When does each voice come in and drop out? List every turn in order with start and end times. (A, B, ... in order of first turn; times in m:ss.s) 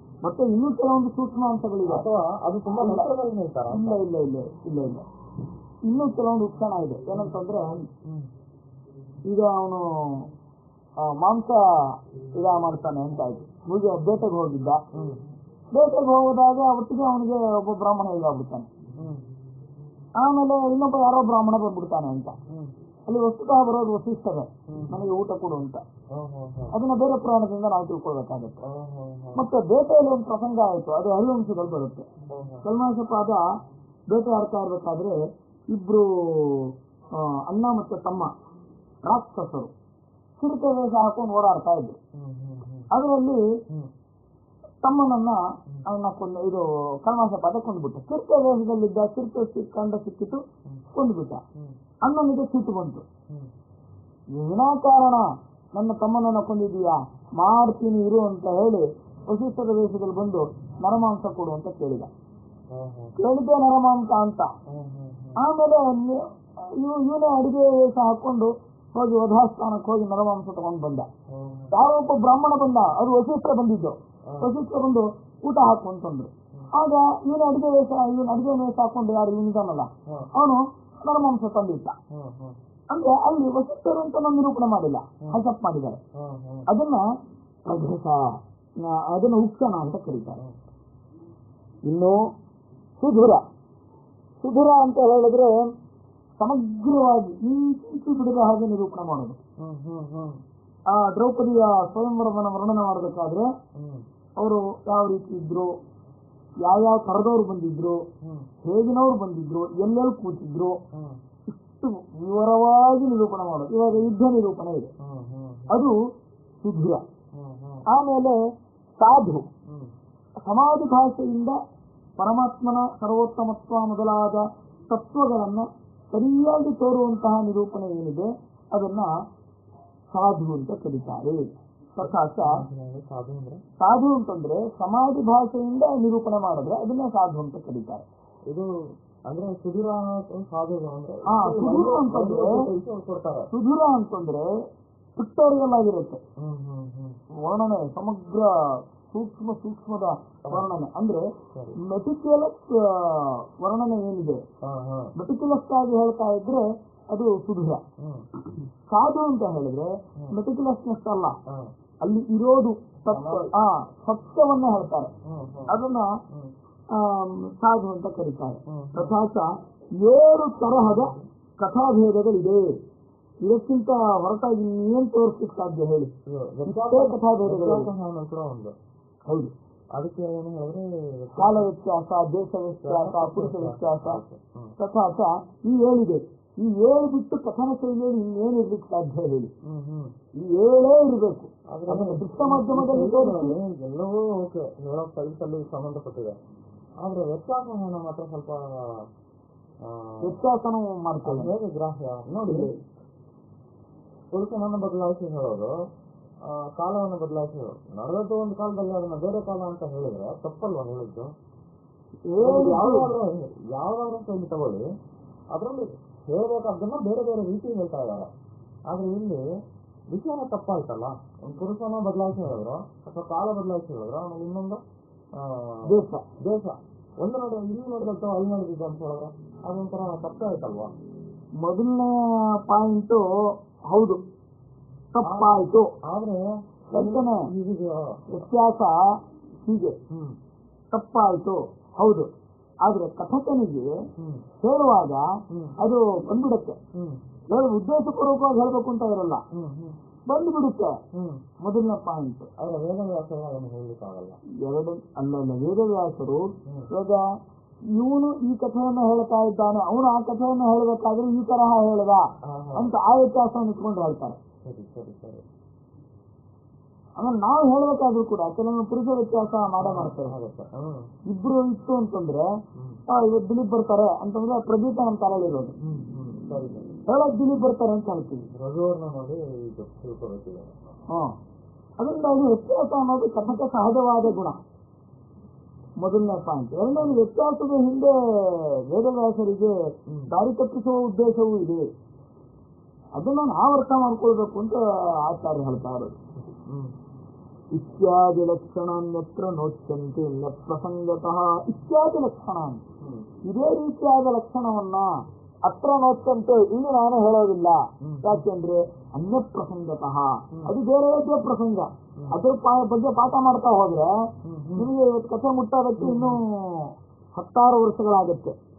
0:00.2-0:02.0 A
0:01.8-0:04.0 B
0:02.8-0:03.1 A
0:03.7-0:05.0 A
0:05.8-0:07.8 A
0:09.3-0:09.8 A
0:11.0-0:11.6 A
0:12.4-0:14.8 A
0:14.9-0:15.2 B
0:15.7-0:18.7 A
0:19.0-0:19.2 B
0:20.2-0:22.4 A
0:23.1-0:25.8 A
0:24.7-0:25.0 B
0:26.1-0:26.7 B
0:26.7-0:28.6 A
0:28.6-0:29.4 B
0:29.3-0:32.0 A
0:32.3-0:32.6 B
0:32.6-0:33.4 A
0:34.1-0:35.2 A
0:35.7-0:38.3 A
0:39.0-0:39.7 A
0:40.4-0:42.0 A
0:42.1-0:42.9 B
0:42.9-0:43.4 A
0:44.8-0:51.4 A
0:52.0-0:53.0 A
0:54.4-1:02.1 A
1:02.7-1:03.1 B
1:03.2-1:04.5 A
1:04.7-1:05.4 B
1:05.4-1:06.2 A
1:06.7-1:11.1 A
1:11.3-1:11.7 B
1:11.7-1:22.0 A
1:22.1-1:22.6 B
1:22.9-1:26.0 A
1:26.1-1:26.7 B
1:26.7-1:27.0 A
1:27.7-1:30.4 A
1:31.8-1:32.3 A
1:33.0-1:33.4 A
1:34.4-1:35.7 A
1:36.4-1:39.4 A
1:39.6-1:40.4 B
1:40.9-1:43.5 A
1:43.7-1:44.0 B
1:44.4-1:45.7 A
1:46.6-1:48.0 A
1:48.2-1:48.5 B
1:48.6-1:50.8 A
1:50.9-1:51.2 B
1:51.5-1:54.9 A
1:55.0-1:55.8 B
1:55.7-1:55.9 A
1:56.6-1:57.0 A
1:57.3-1:57.8 B
1:57.9-1:58.4 A
1:59.0-1:59.5 A
2:00.4-2:01.6 A
2:02.2-2:09.1 A
2:10.1-2:11.4 A
2:11.9-2:12.6 A
2:12.0-2:13.6 B
2:13.8-2:18.0 A
2:19.3-2:23.5 B
2:21.2-2:22.6 A
2:23.5-2:24.5 A
2:25.2-2:26.2 A
2:26.4-2:27.2 B
2:27.4-2:28.5 A
2:29.0-2:34.4 A
2:31.5-2:31.8 B
2:34.6-2:35.1 B
2:35.2-2:37.8 A
2:38.0-2:38.3 B
2:38.9-2:41.4 A
2:42.0-2:45.1 A
2:43.1-2:43.5 B
2:45.2-2:45.8 B
2:45.7-2:46.1 A
2:46.3-2:46.5 B
2:46.9-2:52.7 A
2:48.7-2:49.2 B
2:50.7-2:51.2 B
2:53.4-2:56.1 A
2:56.2-2:58.7 B
2:56.7-2:57.9 A
2:59.9-3:01.7 B
3:01.4-3:04.2 A
3:02.8-3:04.7 B
3:04.8-3:09.5 A
3:09.6-3:10.1 B
3:10.4-3:13.6 A
3:11.7-3:16.4 B
3:17.0-3:19.0 B
3:19.8-3:20.4 B
3:20.2-3:21.5 A
3:21.2-3:22.7 B
3:22.3-3:22.7 A
3:24.3-3:25.7 B
3:26.4-3:31.3 B
3:32.3-3:33.1 A
3:32.4-3:34.8 B
3:35.5-3:38.3 B
3:38.9-3:39.4 B
3:40.1-3:44.8 B
3:45.3-3:50.9 B
3:45.8-3:46.2 A
3:51.6-3:53.2 A
3:53.9-3:54.2 A
3:55.1-3:55.9 A
3:55.2-3:58.3 B
3:56.9-3:57.5 A
3:58.3-3:59.0 A
3:59.6-4:00.0 A
4:00.1-4:00.4 B
4:00.9-4:02.3 A
4:02.8-4:03.9 A
4:04.2-4:04.4 B
4:04.6-4:06.8 A
4:05.5-4:05.8 B
4:06.9-4:07.2 B
4:07.5-4:09.4 A
4:09.5-4:10.0 B
4:10.3-4:11.0 A
4:11.1-4:11.4 B
4:11.6-4:12.5 A
4:12.6-4:14.4 B
4:14.6-4:17.2 A
4:18.0-4:24.4 A
4:22.4-4:22.9 B
4:24.6-4:25.4 B
4:27.2-4:30.4 A
4:29.8-4:31.1 B
4:31.3-4:32.5 A
4:33.1-4:35.7 A
4:35.8-4:37.0 B
4:37.1-4:38.5 A
4:38.5-4:40.8 B
4:42.0-4:44.6 A
4:46.0-4:49.8 A
4:50.3-4:51.8 A
4:53.1-4:56.2 A
4:56.7-4:56.9 B
4:57.7-5:02.8 A
5:03.0-5:03.3 B
5:03.5-5:05.1 A
5:05.6-5:18.6 A
5:08.0-5:08.4 B
5:14.4-5:14.9 B
5:16.0-5:16.4 B